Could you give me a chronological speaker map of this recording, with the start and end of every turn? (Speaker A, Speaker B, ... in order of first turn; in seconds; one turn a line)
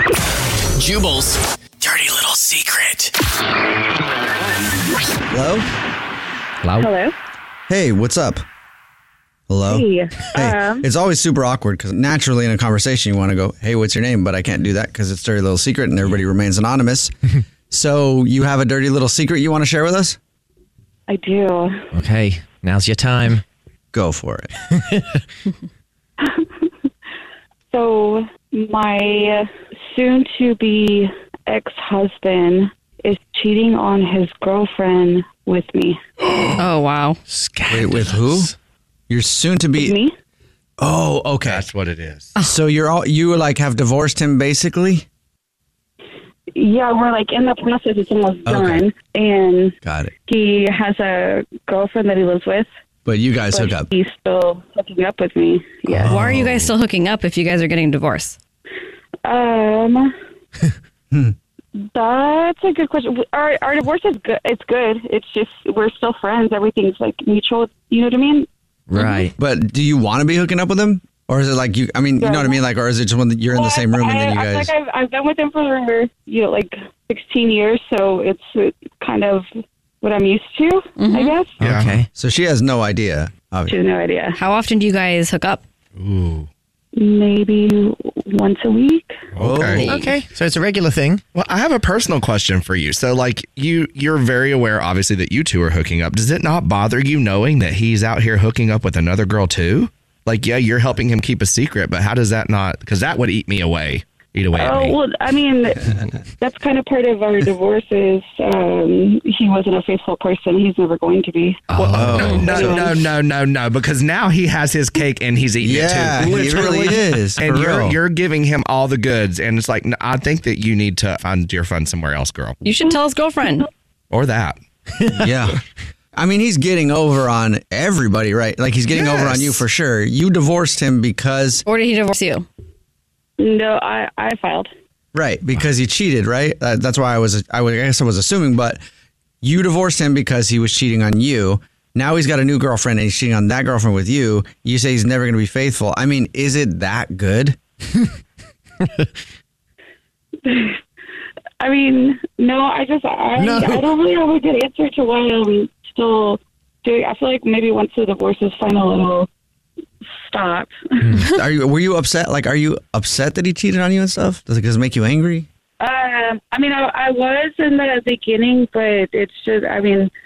Speaker A: 0.7-3.1
Speaker B: 5.3-5.7
Speaker C: 6.6-6.9
Speaker D: 6.8-7.1
Speaker B: 7.7-8.4
Speaker B: 9.5-17.1
Speaker D: 9.7-10.8
Speaker B: 17.7-20.2
Speaker D: 21.1-21.9
Speaker C: 21.9-23.4
Speaker B: 23.9-24.5
Speaker C: 24.7-25.2
Speaker D: 26.2-26.5
Speaker D: 27.7-36.0
Speaker E: 36.6-37.2
Speaker C: 37.3-38.5
Speaker B: 37.7-38.5
Speaker B: 39.1-40.0
Speaker D: 39.8-40.1
Speaker B: 40.8-41.6
Speaker F: 41.4-42.3
Speaker B: 42.4-45.0
Speaker D: 46.5-52.7
Speaker B: 48.5-48.9
Speaker B: 49.8-50.1
Speaker B: 53.0-53.9
Speaker D: 53.5-56.1
Speaker B: 55.9-56.7
Speaker E: 56.0-58.4
Speaker D: 59.2-60.1
Speaker D: 61.8-69.2
Speaker C: 68.9-69.3
Speaker B: 69.4-74.7
Speaker D: 72.2-72.6
Speaker D: 73.5-79.5
Speaker D: 80.0-81.6
Speaker E: 81.0-81.4
Speaker F: 81.6-82.0
Speaker C: 81.6-82.1
Speaker B: 82.1-83.7
Speaker D: 83.7-84.4
Speaker E: 84.3-85.6
Speaker F: 86.0-86.5
Speaker D: 86.9-89.1
Speaker F: 89.3-90.0
Speaker B: 89.4-89.9
Speaker C: 89.8-91.2
Speaker F: 91.3-105.0
Speaker D: 104.5-105.9
Speaker D: 106.4-111.6
Speaker C: 111.7-112.5
Speaker F: 111.7-122.6
Speaker B: 111.9-112.8
Speaker D: 112.3-113.1
Speaker B: 115.6-118.0
Speaker E: 122.6-123.7
Speaker F: 124.1-124.6
Speaker B: 125.1-125.6
Speaker B: 126.2-131.6
Speaker F: 128.9-129.6
Speaker E: 131.7-132.5
Speaker D: 133.4-134.7
Speaker B: 135.1-138.8
Speaker B: 139.4-147.6
Speaker C: 148.8-149.1
Speaker D: 150.4-150.8
Speaker D: 151.6-159.3
Speaker C: 153.4-153.8
Speaker D: 160.2-161.2
Speaker C: 161.0-161.3
Speaker B: 161.2-165.5
Speaker D: 165.8-170.1